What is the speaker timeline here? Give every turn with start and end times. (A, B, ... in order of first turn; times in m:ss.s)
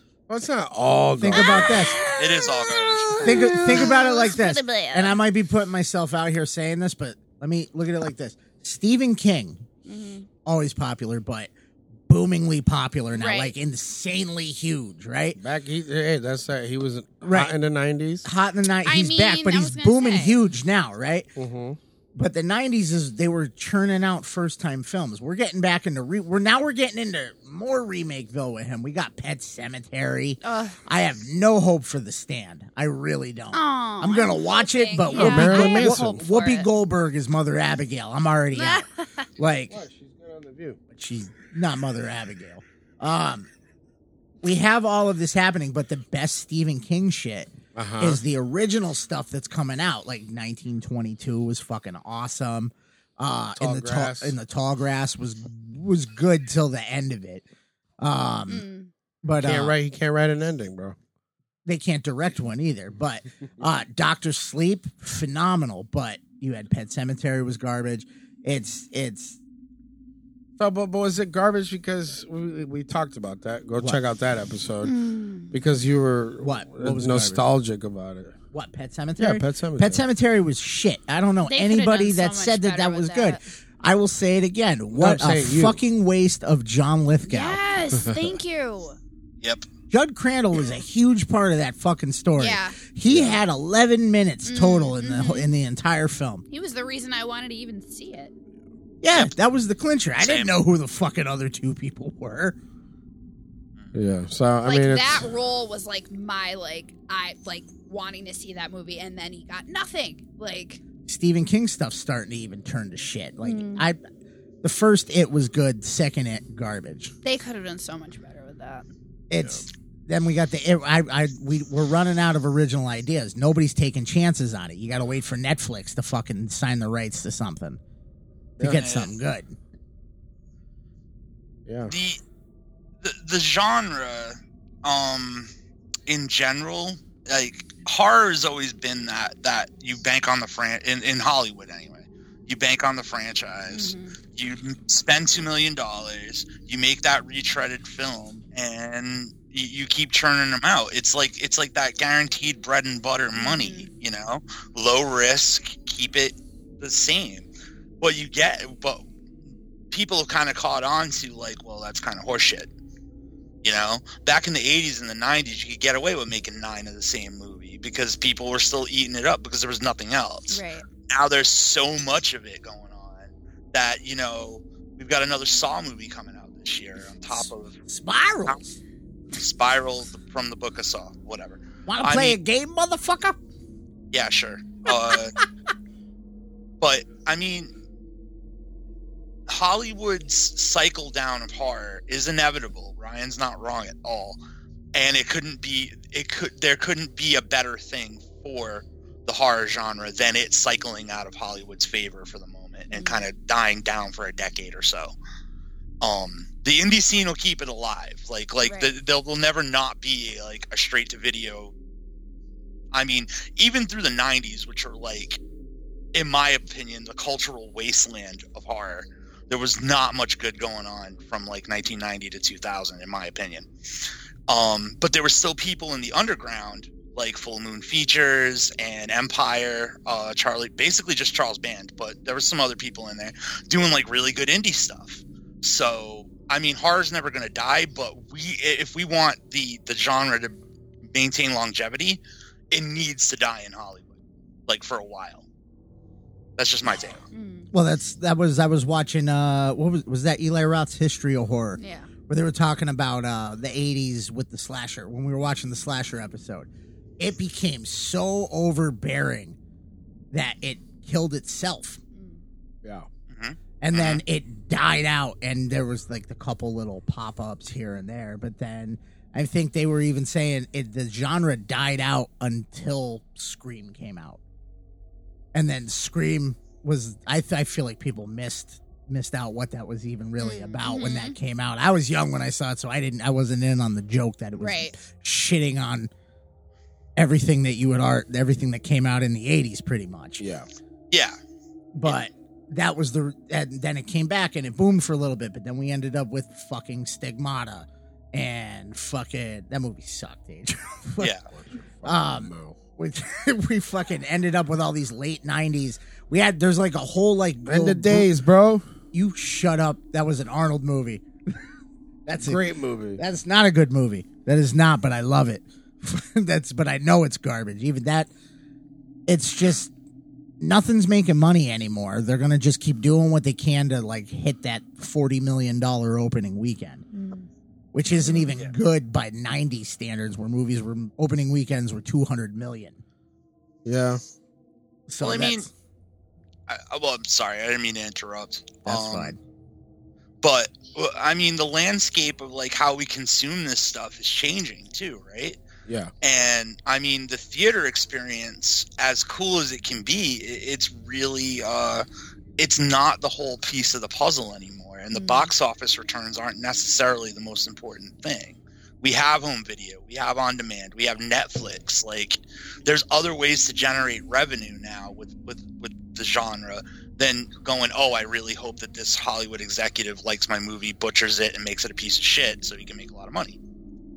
0:00.3-0:01.9 A
0:01.2-0:02.0 B
0:02.2-0:03.3 C
0:03.2-0:03.9 A
0:03.2-0:05.2 D
0:03.2-0:09.6 B
0:09.8-0:10.3 D
0:10.4-0:11.5 B
0:12.1-0:15.4 B
0:13.1-0:13.5 D
0:15.4-0:18.3 A
0:17.2-0:17.5 B
0:18.2-0:21.3 B
0:18.8-0:20.4 D
0:21.4-0:21.8 A
0:22.1-0:38.8 B
0:30.4-0:30.8 D
0:33.5-0:36.7 D
0:35.1-0:36.2 A
0:38.5-0:39.3 D
0:39.4-0:39.8 B
0:39.7-0:40.8 A
0:40.9-0:43.5 B
0:44.4-0:57.4 B
0:47.7-0:48.2 A
0:53.6-0:54.4 A
0:58.0-0:58.7 B
0:58.5-0:58.9 D
0:59.2-0:59.7 B
0:59.4-1:01.0 A
1:01.6-1:09.4 B
1:10.6-1:14.9 A
1:13.8-1:14.0 B
1:14.8-1:15.5 D
1:15.5-1:18.3 A
1:16.4-1:17.4 B
1:18.5-1:27.6 B
1:19.2-1:20.0 A
1:21.4-1:23.4 D
1:25.0-1:25.8 A
1:27.2-1:29.0 D
1:29.4-1:29.7 C
1:29.9-1:36.4 B
1:32.4-1:32.8 D
1:33.1-1:33.4 A
1:34.4-1:35.5 D
1:36.5-1:38.3 D
1:39.0-1:42.6 B
1:40.2-1:40.5 C
1:43.9-1:45.3 A
1:44.6-1:50.8 D
1:51.0-1:54.0 B
1:53.4-1:53.9 D
1:54.6-1:57.1 B
1:57.2-1:58.8 D
1:59.3-2:07.8 B
2:08.6-2:09.6 B
2:08.7-2:09.1 C
2:11.6-2:11.9 A
2:11.9-2:12.2 C
2:13.0-2:15.5 C
2:16.1-2:37.5 C
2:23.7-2:24.2 D
2:33.4-2:33.9 D
2:38.0-2:39.0 C
2:39.9-2:42.7 C
2:43.6-2:57.8 C
2:50.5-2:50.8 D
2:57.3-2:58.8 B
2:59.3-3:02.4 C
3:01.9-3:03.4 B
3:04.1-3:05.4 C
3:06.8-3:07.7 C
3:09.5-3:14.4 C
3:14.9-3:25.1 C
3:22.9-3:23.2 D
3:26.0-3:31.7 C
3:28.6-3:28.9 D
3:32.9-3:35.4 C
3:36.1-3:43.7 C
3:44.5-4:00.6 C
4:01.1-4:04.1 C
4:04.7-4:05.4 C
4:06.6-4:07.2 C
4:07.3-4:07.7 D
4:07.7-4:19.6 B
4:11.8-4:12.1 D
4:20.3-4:22.0 B
4:22.1-4:22.4 D
4:23.3-4:24.2 C
4:23.8-4:34.4 B
4:35.5-4:46.1 B
4:40.4-4:41.4 D
4:44.6-4:45.0 D
4:47.2-4:50.4 B
4:50.4-4:50.7 A
4:51.1-4:51.4 C
4:51.9-5:01.3 B
5:01.2-5:01.4 C
5:01.5-5:02.8 A
5:02.0-5:08.3 B
5:07.7-5:08.8 A
5:09.1-5:11.7 B
5:12.2-5:12.6 B
5:12.4-5:13.2 A
5:13.2-5:18.3 B
5:19.3-5:19.9 B
5:20.6-5:27.0 B
5:27.1-5:27.5 D
5:27.9-5:33.0 B
5:33.8-5:34.2 A
5:35.1-5:35.7 B
5:35.2-5:35.7 C
5:36.7-5:39.4 C
5:38.8-5:39.4 B
5:40.4-5:45.6 C
5:45.8-5:46.1 A
5:46.2-5:52.0 C
5:52.6-6:13.6 C
5:55.1-5:55.5 D